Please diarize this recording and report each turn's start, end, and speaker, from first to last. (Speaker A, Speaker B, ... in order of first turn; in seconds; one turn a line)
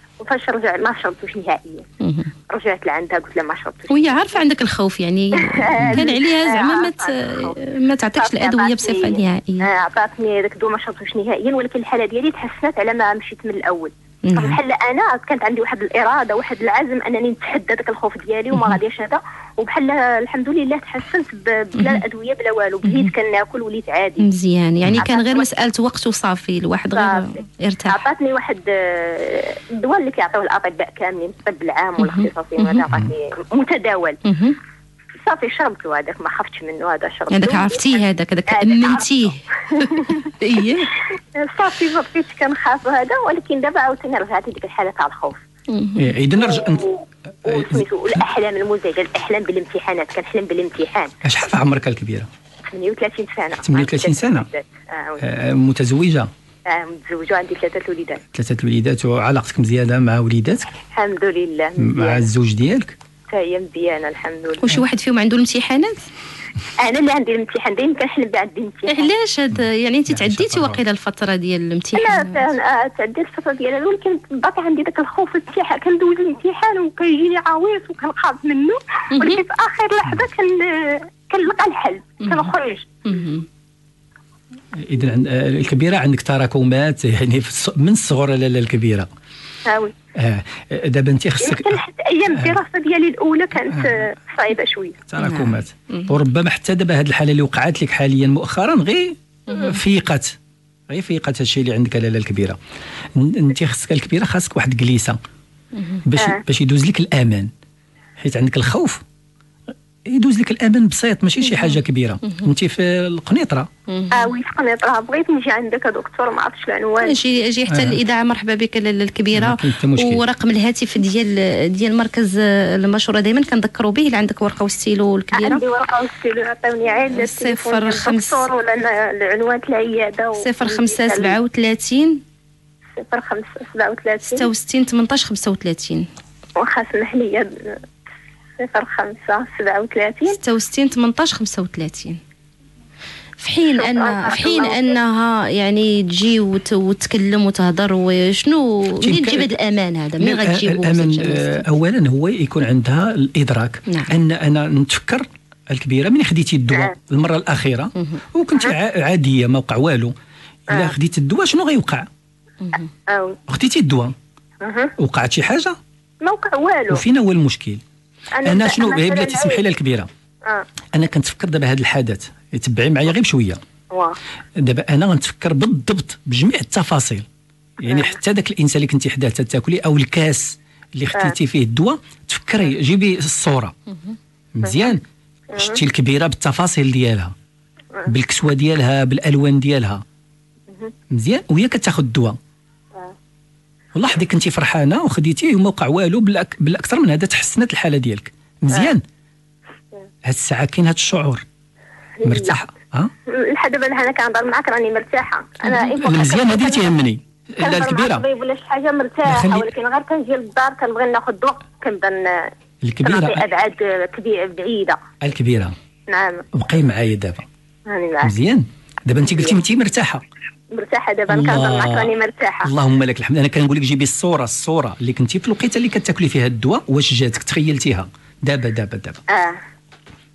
Speaker A: 0.2-1.9
Speaker B: 2.0-2.3
Speaker A: 2.5-4.4
Speaker B: 3.9-9.7
Speaker A: 5.4-7.6
Speaker A: 8.2-24.3
Speaker B: 14.2-14.6
Speaker B: 22.9-23.1
Speaker B: 24.2-28.0
Speaker A: 25.0-25.6
Speaker A: 27.0-34.2
Speaker B: 32.0-32.8
Speaker B: 34.2-34.6
Speaker A: 35.3-40.3
Speaker B: 37.3-40.9
Speaker A: 41.4-45.4
Speaker B: 45.7-46.1
Speaker C: 46.0-46.9
Speaker A: 46.4-51.1
Speaker C: 47.5-47.8
Speaker C: 51.2-52.3
Speaker A: 52.7-55.2
Speaker C: 53.6-54.5
Speaker C: 55.2-56.3
Speaker A: 56.7-58.2
Speaker C: 58.3-60.8
Speaker A: 60.9-62.2
Speaker C: 61.8-63.0
Speaker A: 63.3-64.7
Speaker B: 64.6-66.0
Speaker A: 66.8-69.1
Speaker B: 68.9-72.4
Speaker C: 70.1-70.8
Speaker A: 72.0-83.0
Speaker B: 79.1-79.4
Speaker B: 82.2-82.5
Speaker B: 83.0-83.5
Speaker C: 84.8-89.1
Speaker A: 89.7-89.9
Speaker C: 90.2-91.8
Speaker A: 91.4-95.0
Speaker C: 93.7-94.0
Speaker C: 95.1-100.3
Speaker B: 95.2-96.1
Speaker C: 100.9-102.6
Speaker C: 103.2-105.2
Speaker C: 106.0-107.5
Speaker A: 106.2-106.4
Speaker C: 108.2-109.0
Speaker C: 110.1-113.7
Speaker B: 113.9-114.2
Speaker A: 114.1-117.2
Speaker B: 117.0-125.6
Speaker C: 117.7-118.0
Speaker C: 119.3-120.2
Speaker A: 125.3-131.4
Speaker B: 127.1-128.5
Speaker B: 130.4-132.2
Speaker A: 133.0-134.5
Speaker B: 134.3-136.1
Speaker A: 136.6-137.8
Speaker A: 138.6-140.4
Speaker B: 140.3-142.2
Speaker B: 143.4-151.7
Speaker A: 143.7-145.0
Speaker C: 149.0-149.5
Speaker C: 150.2-160.2
Speaker C: 160.7-162.1
Speaker A: 163.1-163.4
Speaker C: 163.5-164.2
Speaker A: 164.6-164.9
Speaker C: 165.0-165.8
Speaker A: 166.2-167.0
Speaker C: 166.9-167.8
Speaker A: 168.3-169.6
Speaker C: 168.4-170.1
Speaker C: 170.9-173.6
Speaker A: 173.9-174.2
Speaker C: 174.6-177.3
Speaker C: 177.8-183.8
Speaker A: 177.9-178.2
Speaker C: 184.6-185.0
Speaker A: 184.6-184.9
Speaker A: 185.5-185.8
Speaker C: 185.6-187.3
Speaker C: 188.1-190.0
Speaker C: 191.1-192.4
Speaker C: 193.9-199.0
Speaker C: 200.2-201.4
Speaker A: 202.2-202.6
Speaker C: 202.2-203.1
Speaker A: 203.3-207.0
Speaker C: 205.7-208.2
Speaker A: 207.6-212.5
Speaker C: 209.3-209.7
Speaker C: 212.8-213.5
Speaker A: 213.0-215.0
Speaker C: 215.2-215.8
Speaker A: 216.1-216.5
Speaker C: 216.5-217.5
Speaker A: 217.9-218.3
Speaker C: 218.2-220.2
Speaker A: 219.2-219.6
Speaker A: 220.7-222.7
Speaker C: 221.3-222.1
Speaker C: 222.6-229.2
Speaker A: 229.3-229.6